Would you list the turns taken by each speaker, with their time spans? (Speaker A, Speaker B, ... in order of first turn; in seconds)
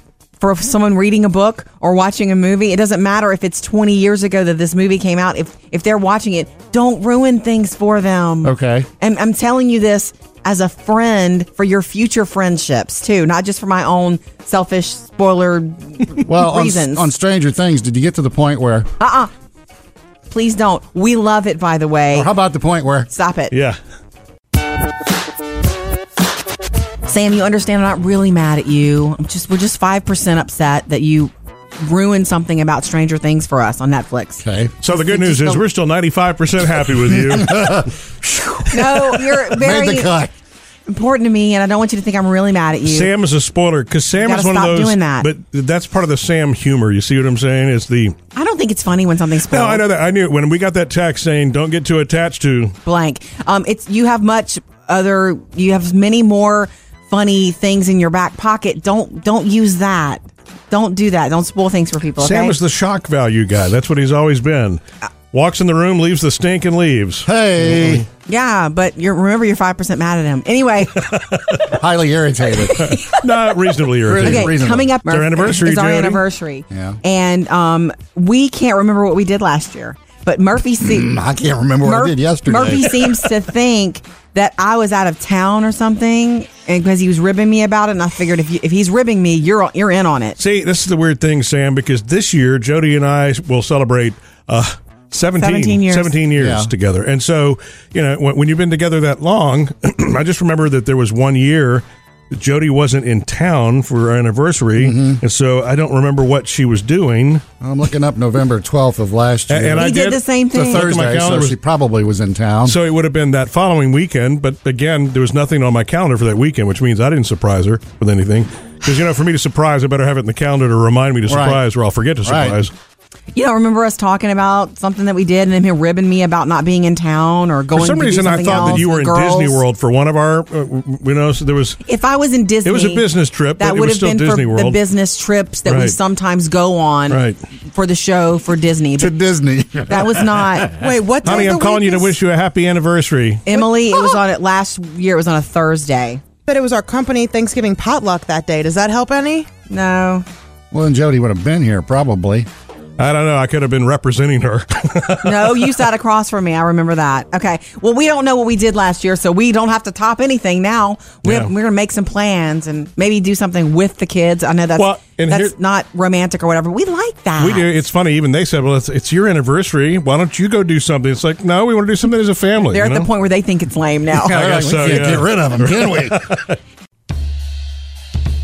Speaker A: 0.4-17.1, 19.0-19.3, 20.3-22.3, 23.1-23.5, 27.1-35.6, 38.7-40.1, 40.9-43.1, 44.2-45.3, 48.3-49.8, 52.8-62.5, 68.3-71.1, 72.7-73.2, 74.2-81.1, 81.8-90.4, 95.4-96.1, 109.8-110.9, 123.3-129.6, 131.8-133.0, 133.6-137.2, 137.7-139.1, 139.9-140.7, 143.4-146.2, 149.7-150.2, 155.2-167.7, 172.6-174.4
Speaker B: 8.4-8.9, 16.2-18.9, 22.1-23.1, 34.4-34.7, 37.2-40.3, 67.2-68.0, 71.7-73.0, 74.0-74.9, 76.7-77.0, 80.8-83.2, 96.3-96.7, 104.8-105.2, 107.6-110.0, 110.5-112.8, 121.3-121.6, 122.2-122.6, 128.5-128.8, 139.0-140.7, 150.7-152.5, 174.1-176.2
Speaker C: 23.5-23.8, 34.8-37.9, 42.9-48.1, 49.5-52.7, 62.2-64.8, 65.3-68.0, 71.1-71.6, 72.9-74.5, 75.1-76.2, 90.4-107.4, 109.5-111.5, 112.6-122.7, 127.7-131.8, 132.6-134.8, 135.7-135.9, 137.1-137.4, 141.2-143.4, 153.0-155.8, 161.2-161.5, 164.8-165.5, 167.4-173.1, 174.3-176.6
Speaker D: 140.8-142.1, 146.5-149.5